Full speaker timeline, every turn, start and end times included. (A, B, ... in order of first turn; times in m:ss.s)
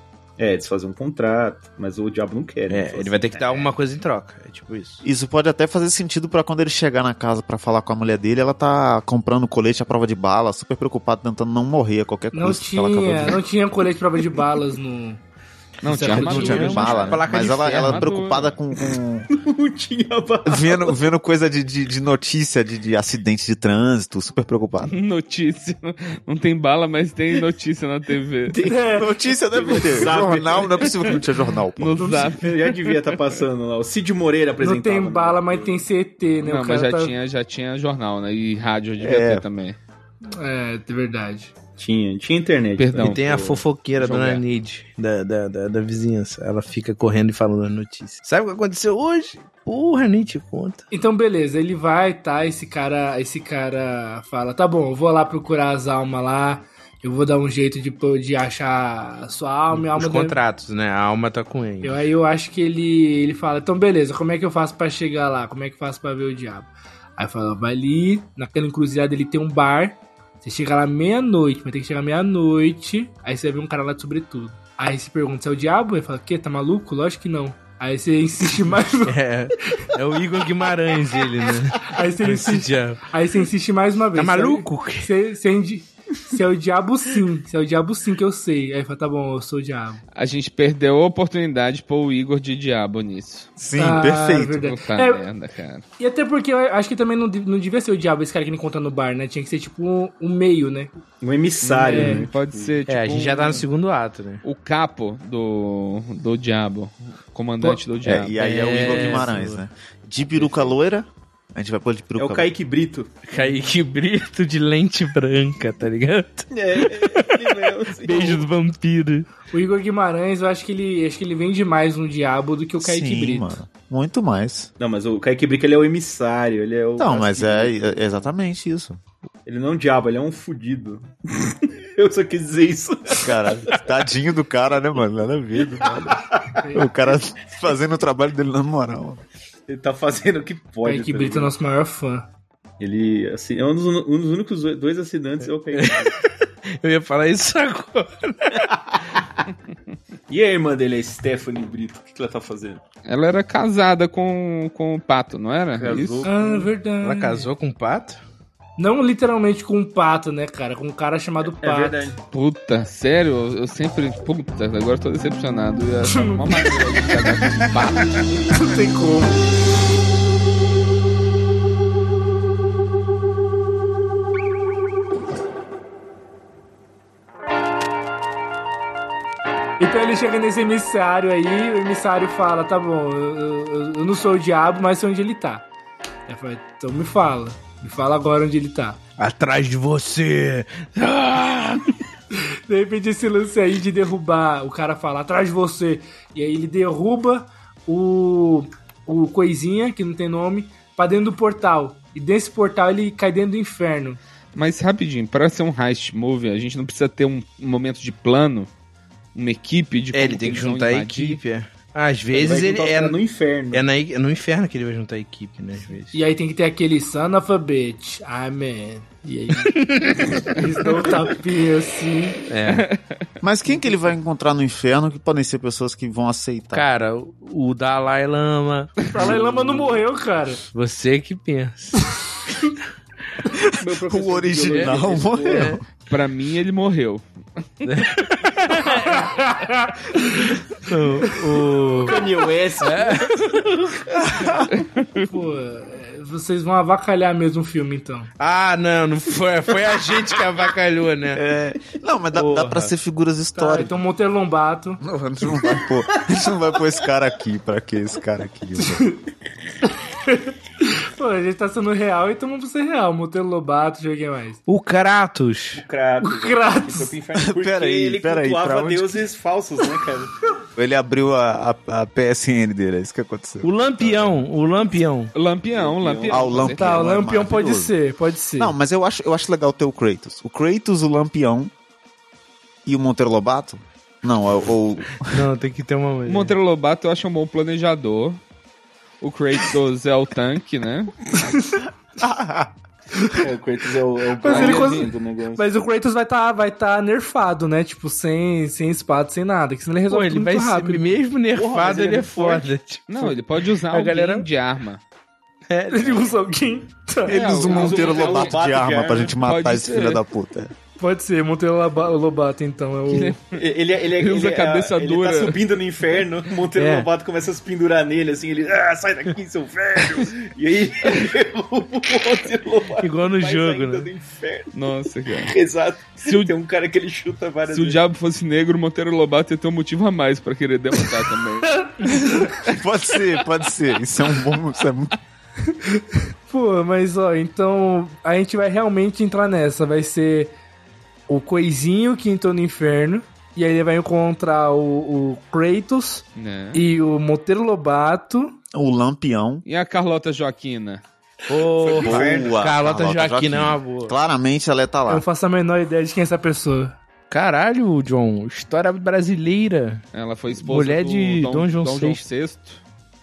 0:00.4-0:03.7 A
0:02.7-0:05.0 B
0:05.0-0:13.4 C
0:12.3-0:15.2 D
0:15.8-0:18.5 E
0:15.9-0:16.9 D
0:16.0-0:19.3 C
0:16.1-0:18.0 B
0:19.3-0:21.0 A
0:20.5-0:25.0 C
0:24.9-0:28.6 E
0:28.5-0:28.8 A
0:28.6-0:29.1 D
0:28.9-0:32.2 C
0:29.6-0:31.2 A
0:30.8-0:31.2 E
0:31.8-0:33.4 E
0:32.0-0:32.4 D
0:32.3-0:35.8 A
0:34.6-0:37.2 D
0:36.4-0:39.8 E
0:39.0-0:39.5 C
0:40.3-0:41.5 D
0:41.8-0:44.4 A
0:42.8-0:43.2 E
0:43.0-0:50.8 B
0:50.9-1:00.4 D
0:59.7-1:02.0 B
1:01.8-1:19.2 D
1:19.0-1:23.1 B
1:21.8-1:30.0 D
1:24.2-1:25.1 B
1:30.2-1:33.5 E
1:33.6-1:34.7 C
1:33.7-1:35.2 D
1:34.6-1:35.8 E
1:36.0-1:41.0 D
1:41.2-1:43.2 A
1:41.6-1:43.7 E
1:41.9-1:42.3 D
1:42.9-1:44.4 B
1:44.4-1:49.1 E
1:48.0-1:52.5 C
1:48.4-1:49.6 B
1:50.4-1:50.7 A
1:52.2-1:53.1 A
1:53.3-1:59.3 B
1:56.5-1:58.5 A
1:59.5-2:03.5 D
2:02.8-2:04.7 C
2:04.8-2:07.7 A
2:07.0-2:09.0 C
2:09.5-2:13.8 A
2:13.2-2:19.2 C
2:16.1-2:16.7 A
2:16.6-2:17.0 D
2:19.7-2:21.5 A
2:20.8-2:22.3 D
2:22.8-2:26.2 A
2:25.7-2:28.6 B
2:28.5-2:29.4 A
2:30.3-2:32.8 A
2:33.1-2:36.3 E
2:35.8-2:36.7 A
2:36.2-2:37.5 D
2:37.0-2:38.2 B
2:38.8-2:42.1 D
2:41.4-2:42.2 A
2:42.3-2:48.6 E
2:46.0-2:46.8 D
2:48.5-2:49.5 D
2:59.8-3:05.7 D
3:06.3-3:09.0 D
3:09.2-3:11.9 B
3:12.4-3:24.2 D
3:24.6-3:28.7 E
3:29.4-3:31.4 E
3:30.1-3:33.2 B
3:32.3-3:33.8 A
3:33.7-3:36.2 B
3:36.1-3:42.4 D
3:39.7-3:40.4 B
3:42.5-3:42.9 B
3:42.7-3:43.2 E
3:43.4-3:46.9 C
3:46.7-3:49.1 B
3:49.1-3:50.6 D
3:50.7-3:52.1 B
3:53.8-3:55.7 A
3:54.1-3:55.8 C
3:54.7-3:55.8 B
3:56.1-3:57.2 E
3:57.8-3:59.5 B
3:58.8-4:00.4 D
4:00.8-4:02.2 B
4:01.2-4:01.6 D
4:02.0-4:04.6 A
4:02.8-4:03.9 B
4:04.2-4:04.7 C
4:04.7-4:05.2 E
4:05.2-4:08.3 D
4:08.4-4:11.4 B
4:11.3-4:14.0 C
4:12.3-4:12.9 B
4:13.6-4:15.0 D
4:15.0-4:19.1 C
4:15.5-4:15.9 A
4:18.9-4:19.2 D
4:19.9-4:24.6 D
4:24.7-4:25.8 B
4:25.7-4:30.4 A
4:26.2-4:27.1 D
4:27.4-4:29.2 C
4:30.8-4:34.5 C
4:33.6-4:35.3 B
4:35.4-4:37.0 E
4:35.7-4:37.0 A
4:36.3-4:38.0 C
4:36.8-4:38.8 D
4:38.6-4:41.7 C
4:42.9-4:45.4 C
4:45.3-4:46.5 B
4:46.3-4:48.4 E
4:49.2-4:51.2 E
4:51.4-4:51.8 D
4:52.2-4:52.7 C
4:53.4-4:55.8 A
4:54.4-5:01.2 D
4:54.4-4:55.1 E
5:00.1-5:03.4 B
5:01.5-5:02.7 A
5:03.1-5:05.0 E
5:03.9-5:04.5 B
5:05.7-5:06.4 B
5:05.9-5:07.7 D
5:07.2-5:10.7 C
5:07.3-5:08.6 E
5:07.6-5:09.4 A
5:09.4-5:10.2 E
5:11.0-5:13.4 D
5:13.1-5:13.6 E
5:13.5-5:24.7 A
5:14.2-5:16.2 E
5:16.7-5:17.1 B
5:23.0-5:24.1 B
5:24.7-5:25.6 E
5:25.4-5:28.0 A
5:26.2-5:26.5 E
5:27.7-5:32.8 E
5:31.9-5:32.4 D
5:32.5-5:35.2 C
5:35.6-5:40.5 D
5:41.3-5:48.6 D
5:46.4-5:46.8 E
5:48.7-5:49.6 C
5:49.6-5:51.0 E
5:51.5-5:54.2 B
5:51.5-5:52.6 A
5:52.0-5:55.2 C
5:55.1-5:57.0 D
5:57.3-6:00.0 B
6:00.1-6:02.8 E
6:00.6-6:02.2 B